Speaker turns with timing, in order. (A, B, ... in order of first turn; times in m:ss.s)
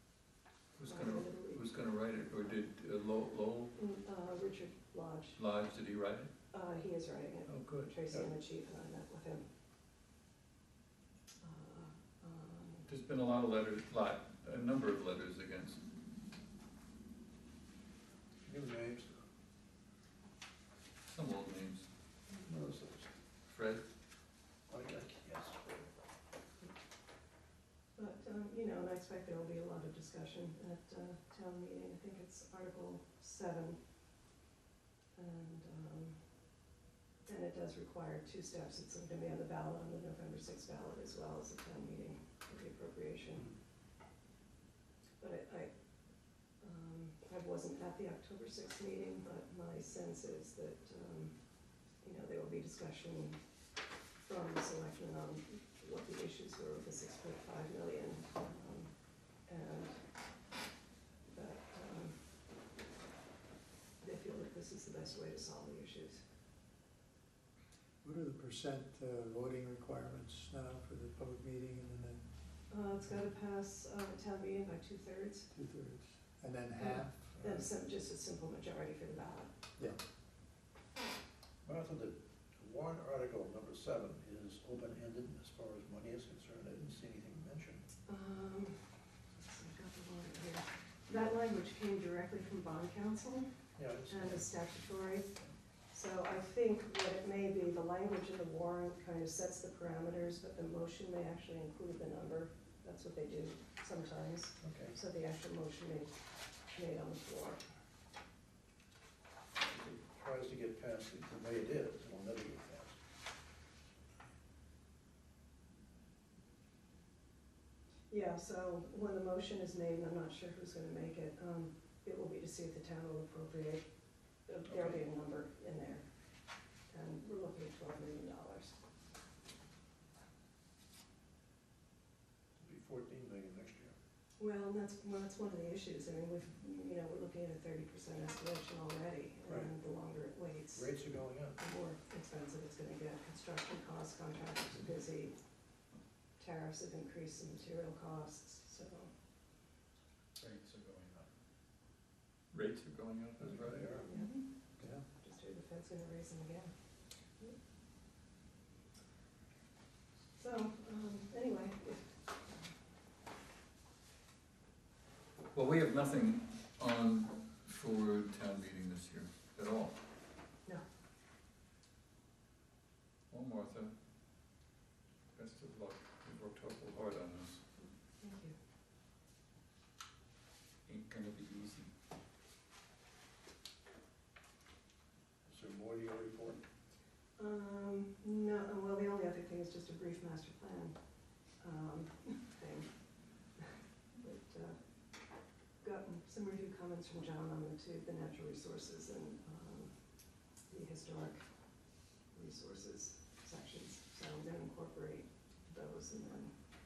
0:00.8-0:03.7 A
0:00.9-0:01.6 B
0:03.8-0:05.4 B
0:05.4-0:06.3 A
0:06.5-0:09.4 B
0:07.5-0:07.9 A
0:11.4-0:12.9 B
0:12.9-0:15.8 A
0:18.4-0:19.2 C
0:21.0-0:21.9 A
0:22.4-0:23.1 C
0:23.5-0:23.8 A
0:24.7-0:25.9 C
0:28.0-0:33.8 B
0:35.2-0:36.2 B
0:37.2-0:43.5 B
0:45.2-0:45.7 B
0:46.6-0:51.4 B
0:52.0-0:53.4 B
0:54.2-1:00.0 B
1:01.3-1:02.2 B
1:04.0-1:06.2 B
1:08.0-1:12.2 D
1:12.7-1:15.5 B
1:15.5-1:17.5 D
1:16.8-1:19.5 B
1:21.6-1:27.8 C
1:28.1-1:33.6 B
1:33.8-1:34.5 C
1:34.1-1:35.4 B
1:35.9-1:47.6 B
1:44.6-1:45.0 C
1:49.6-1:53.0 C
1:58.1-2:03.8 B
2:04.4-2:06.0 B
2:06.9-2:08.8 B
2:12.6-2:13.9 C
2:14.4-2:20.9 B
2:20.7-2:21.6 C
2:21.6-2:25.4 B
2:26.4-2:29.1 B
2:30.4-2:31.2 A
2:32.5-2:33.9 A
2:33.4-2:34.3 C
2:34.1-2:34.5 B
2:34.8-2:35.0 D
2:35.1-2:36.7 B
2:40.4-2:42.5 B
2:45.5-2:50.0 A
2:53.3-2:53.9 A
2:55.4-2:57.6 A
2:58.2-2:58.6 B
3:00.9-3:01.9 A
3:05.5-3:06.6 C
3:07.4-3:11.0 B
3:11.5-3:12.9 B
3:13.6-3:14.8 B
3:15.8-3:19.9 B
3:20.6-3:21.5 B
3:22.3-3:26.5 B